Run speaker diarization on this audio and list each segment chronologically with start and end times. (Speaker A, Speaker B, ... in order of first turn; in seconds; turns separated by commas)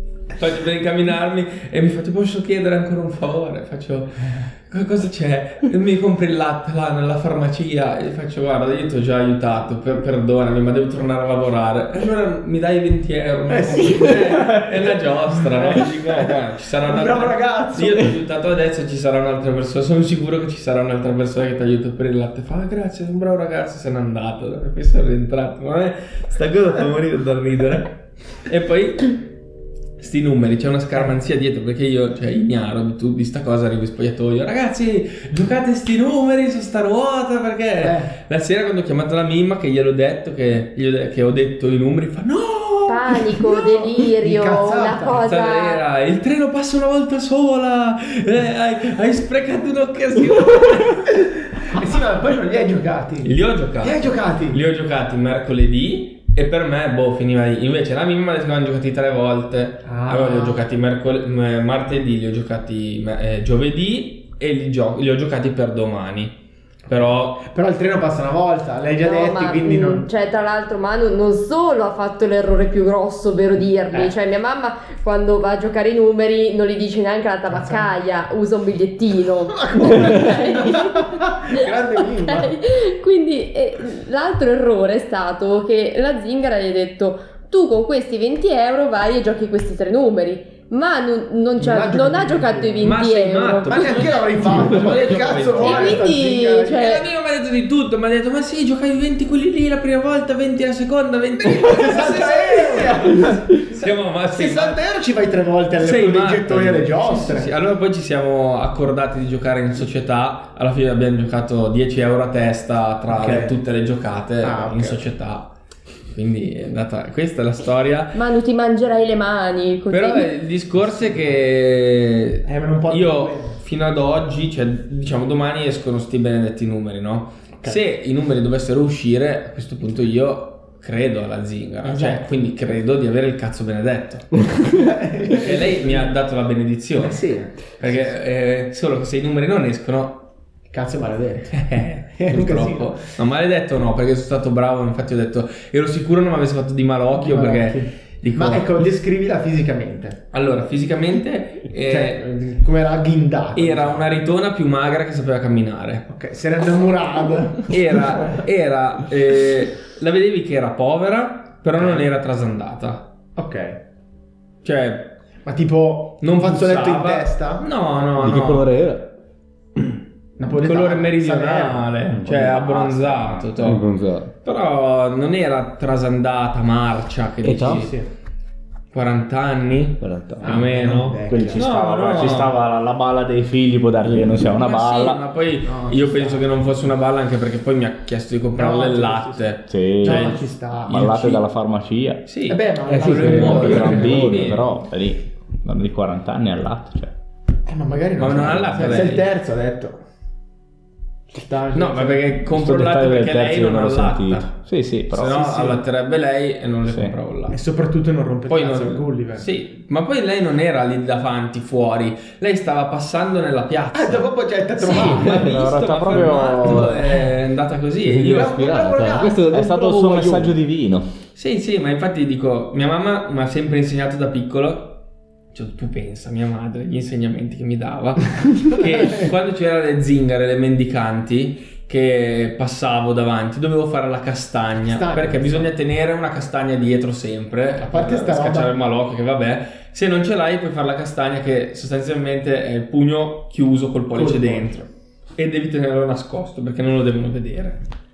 Speaker A: 0.3-27.9, Speaker B: 13.5-16.3, Speaker B: 16.8-18.1, Speaker A: 28.4-29.2, Speaker A: 30.0-43.4, Speaker B: 37.8-38.1, Speaker C: 42.9-45.8, Speaker B: 43.5-45.2, Speaker A: 45.2-51.1, Speaker B: 51.1-54.6, Speaker A: 53.2-66.3, Speaker B: 59.8-60.6, Speaker A: 66.9-67.4, Speaker B: 67.4-70.0, Speaker C: 69.0-94.2, Speaker B: 77.5-77.9, Speaker B: 79.5-82.5, Speaker B: 91.6-92.9, Speaker A: 92.8-96.1, Speaker B: 93.7-97.0, Speaker C: 95.5-97.0, Speaker A: 96.7-104.8, Speaker B: 101.4-107.5, Speaker A: 105.8-115.5, Speaker B: 113.1-113.6, Speaker B: 114.4-115.1, Speaker A: 116.1-118.2, Speaker C: 118.1-120.3, Speaker A: 119.9-134.7, Speaker B: 120.8-121.3, Speaker B: 122.4-123.6, Speaker B: 131.8-132.3, Speaker B: 134.7-136.1, Speaker A: 135.3-137.2, Speaker B: 137.0-138.1, Speaker A: 137.8-140.2, Speaker B: 140.7-143.0, Speaker A: 141.5-148.7, Speaker B: 147.1-150.2, Speaker A: 150.3-152.2, Speaker B: 151.9-154.1, Speaker A: 153.5-156.1, Speaker B: 156.1-158.3, Speaker A: 157.7-163.1, Speaker B: 161.8-162.1, Speaker B: 163.3-163.8, Speaker A: 164.6-165.2, Speaker B: 165.4-167.7, Speaker A: 166.2-168.7, Speaker D: 168.2-169.1, Speaker B: 170.4-172.0, Speaker A: 170.5-173.9, Speaker E: 172.2-173.5, Speaker D: 173.6-174.3, Speaker A: 174.4-177.9, Speaker D: 177.4-177.9, Speaker B: 177.7-178.1, Speaker A: 178.9-182.5, Speaker D: 180.0-180.6, Speaker B: 180.4-181.7, Speaker E: 181.3-185.2, Speaker A: 184.6-191.4, Speaker B: 185.6-186.5, Speaker B: 188.6-191.2, Speaker E: 189.7-190.3, Speaker E: 190.9-192.2, Speaker A: 192.2-194.6, Speaker B: 192.5-194.2, Speaker D: 192.9-194.5, Speaker E: 193.2-197.1, Speaker B: 197.7-200.0, Speaker A: 198.2-199.3, Speaker B: 201.3-202.3, Speaker A: 201.7-204.6, Speaker E: 202.5-205.4, Speaker A: 205.1-207.6, Speaker B: 205.3-205.8, Speaker E: 206.9-207.1, Speaker B: 207.5-209.4, Speaker A: 208.5-214.3, Speaker B: 213.9-215.4, Speaker A: 214.8-218.6, Speaker D: 214.9-215.5, Speaker E: 215.0-217.0, Speaker D: 218.0-220.5, Speaker B: 218.2-219.5, Speaker E: 219.5-221.1, Speaker A: 221.3-225.0, Speaker A: 225.5-244.8, Speaker B: 228.9-229.3, Speaker B: 234.8-235.7, Speaker B: 237.8-238.8, Speaker B: 244.1-244.8, Speaker A: 245.3-247.8